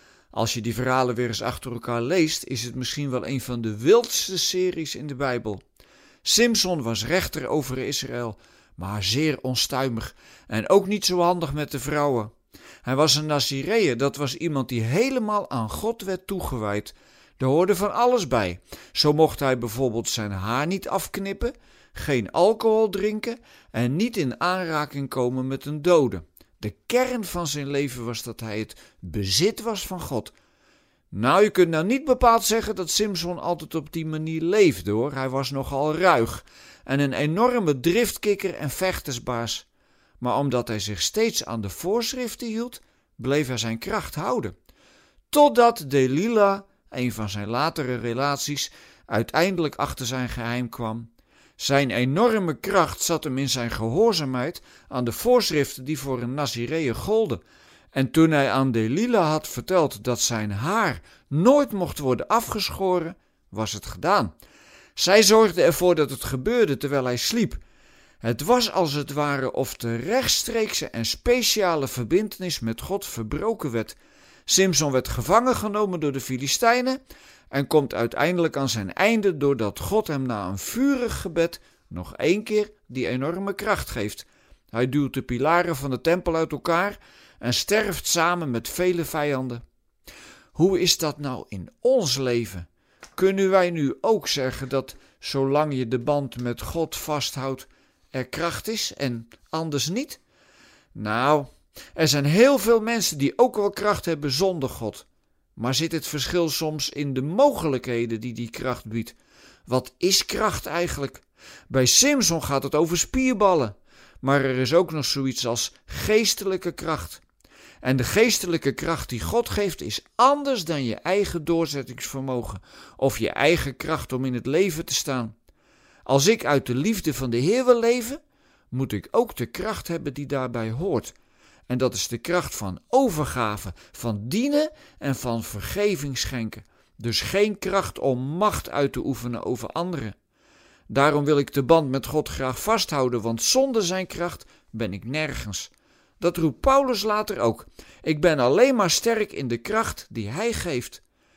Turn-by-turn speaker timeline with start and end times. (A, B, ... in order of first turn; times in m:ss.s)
0:00.3-0:05.6 A
0:06.2-0:12.3 A
0:12.8-0:30.3 A
0:31.1-0:39.6 A
0:40.2-0:44.5 A
0:45.3-0:57.4 A
0:57.9-1:04.3 A
1:05.0-1:07.6 A
1:08.2-1:17.0 A
1:17.5-1:29.6 A
1:30.5-1:40.2 A
1:40.9-1:45.0 A
1:45.6-1:57.2 A
1:57.8-2:05.3 A
2:06.0-2:08.2 A
2:08.7-2:11.1 A
2:11.7-2:20.2 A
2:20.9-2:31.0 A